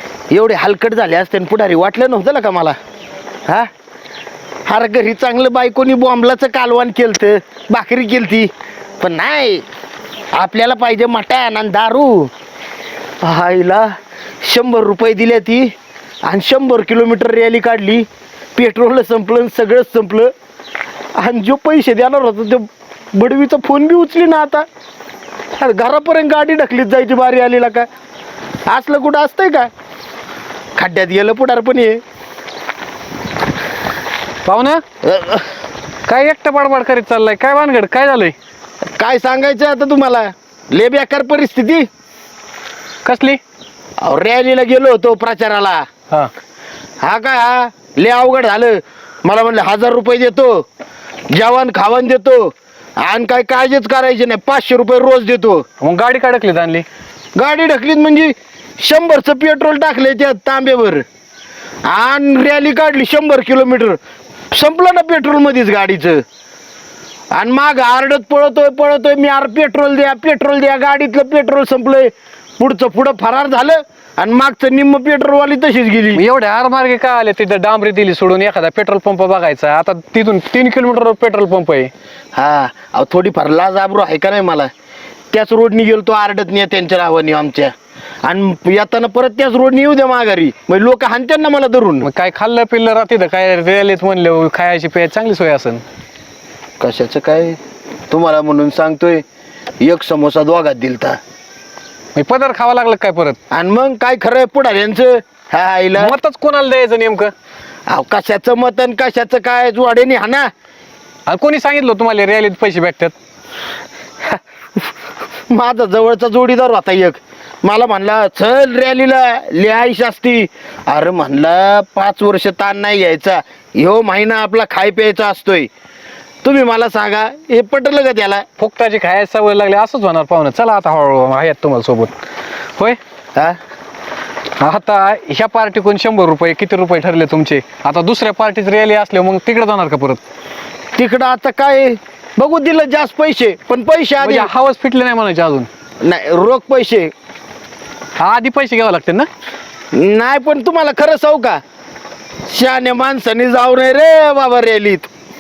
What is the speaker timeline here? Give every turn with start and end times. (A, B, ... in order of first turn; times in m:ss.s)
0:00.3-0:02.8 A
0:04.7-0:09.6 A
0:10.3-0:12.3 A
0:13.2-0:13.9 A
0:14.4-0:15.7 A
0:16.2-0:20.3 A
0:21.2-0:24.6 A
0:25.5-0:27.9 A
0:28.6-0:29.7 A
0:30.8-0:32.0 A
0:34.4-0:34.8 B
0:35.0-0:35.5 A
0:36.1-0:38.3 B
0:39.0-0:41.8 A
0:43.0-0:43.4 B
0:44.0-0:45.8 A
0:47.0-0:50.6 A
0:51.3-0:55.6 A
0:55.8-0:56.8 B
0:57.4-1:01.0 A
1:01.8-1:04.0 A
1:04.5-1:06.2 A
1:07.3-1:16.2 A
1:16.1-1:21.9 B
1:22.3-1:24.7 A
1:25.3-1:32.1 A
1:32.0-1:35.8 B
1:36.8-1:37.6 A
1:38.1-1:39.2 A
1:39.8-1:41.2 A
1:42.1-1:43.4 B
1:43.5-1:46.1 A
1:46.0-1:47.3 B
1:47.9-1:50.5 A
1:51.3-1:53.1 B
1:55.5-2:05.7 A
2:06.4-2:08.4 A
2:08.6-2:12.1 B
2:14.6-2:20.2 B
2:20.9-2:24.5 A
2:24.2-2:25.7 B
2:26.0-2:27.1 A
2:28.2-2:29.3 B
2:29.9-2:31.6 A
2:32.5-2:35.1 A